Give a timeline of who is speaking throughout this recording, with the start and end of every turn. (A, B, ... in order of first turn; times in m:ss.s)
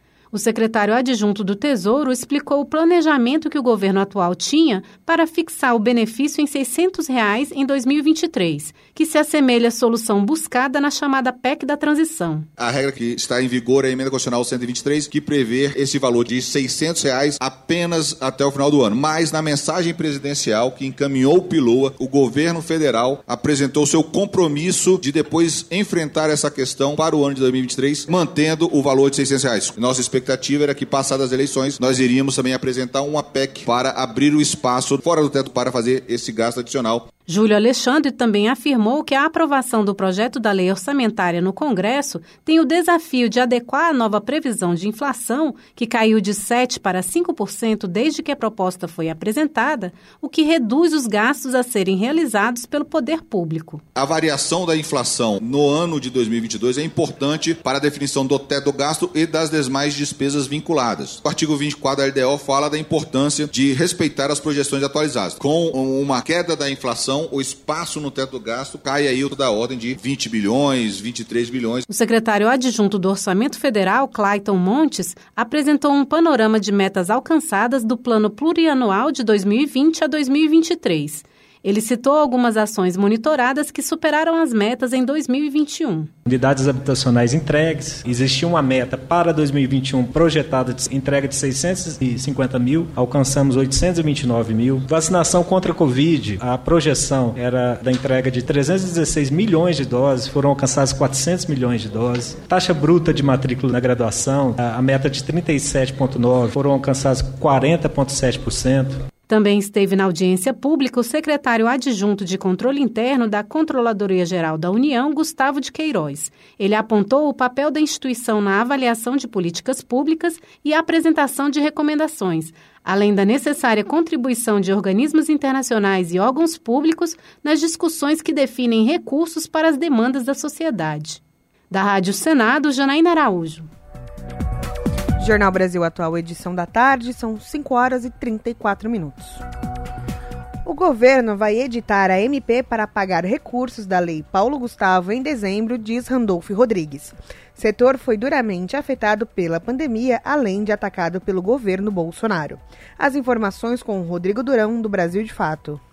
0:00.3-0:12.5 A
0:12.6-0:37.0 B
0:37.3-0:53.8 A
0:54.0-1:11.8 B
1:11.9-1:26.1 A
1:26.2-1:49.0 C
1:49.3-2:13.7 A
2:15.2-2:19.4 D
2:20.6-2:35.8 D